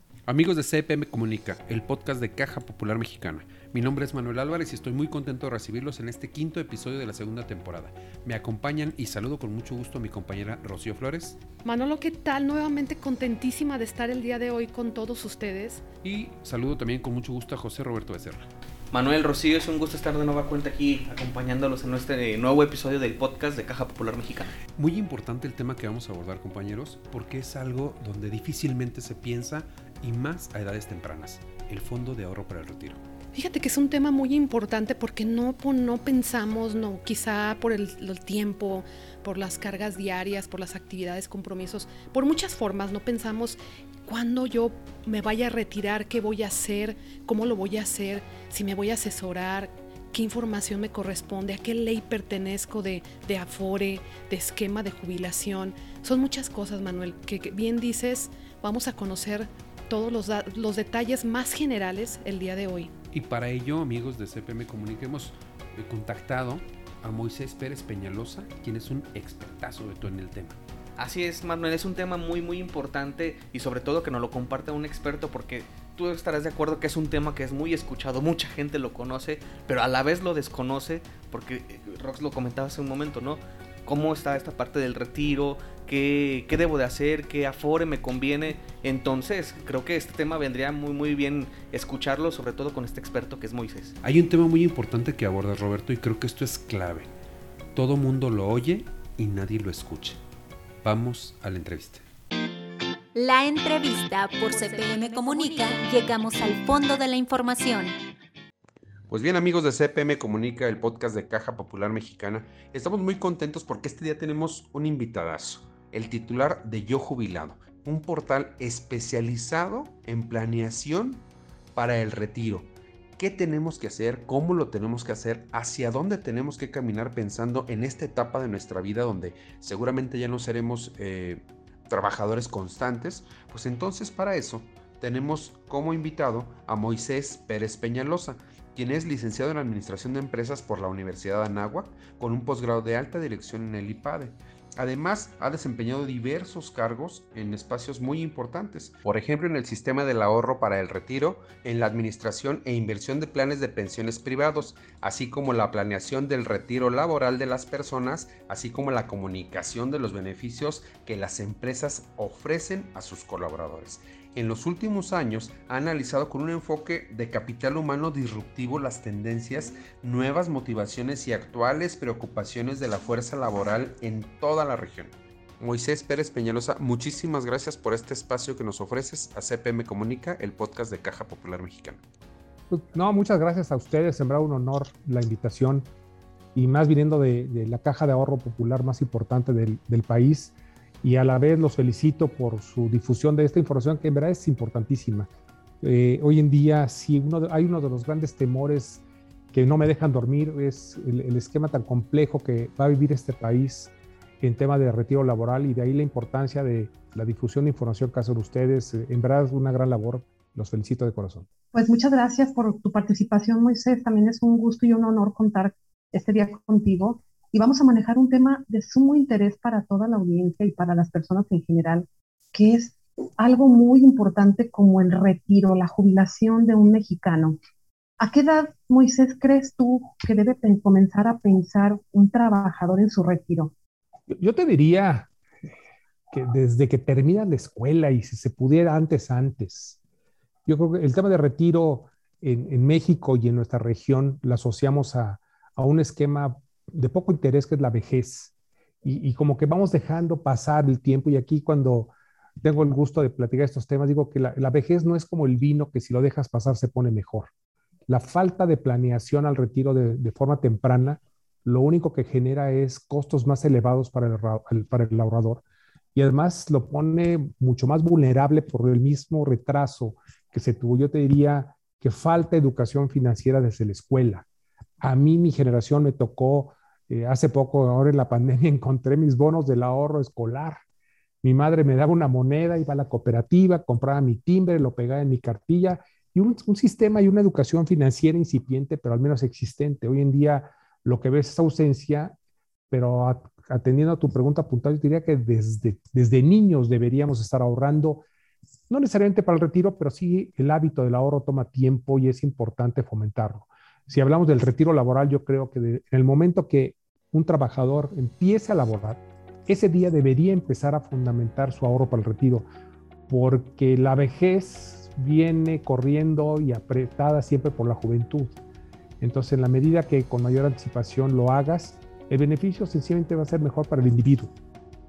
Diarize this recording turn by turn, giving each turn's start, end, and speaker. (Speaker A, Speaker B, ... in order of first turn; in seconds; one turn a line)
Speaker A: 0.3-11.4
Speaker B: 11.6-15.8
Speaker A: 16.0-18.5
Speaker C: 18.9-24.6
Speaker A: 24.8-33.0
Speaker B: 33.3-62.9
Speaker A: 63.1-70.6
Speaker C: 71.0-93.9
Speaker A: 94.0-97.2
Speaker A: 97.8-100.2
Speaker A: 100.8-102.0
Speaker D: 103.2-107.9
Speaker A: 109.1-182.0
Speaker E: 182.7-185.9
Speaker E: 186.5-195.3
Speaker E: 195.8-211.5
Speaker F: 211.7-227.6
Speaker F: 228.2-233.7
Speaker E: 234.3-235.3
Speaker E: 236.3-240.0
Speaker E: 240.7-248.5
Speaker E: 249.0-257.5
Speaker E: 258.1-265.6
Speaker E: 266.1-274.5
Speaker E: 275.0-280.8
Speaker E: 281.4-292.4
Speaker E: 292.9-298.2
Speaker E: 298.9-312.7
Speaker E: 313.3-318.6
Speaker E: 319.2-324.5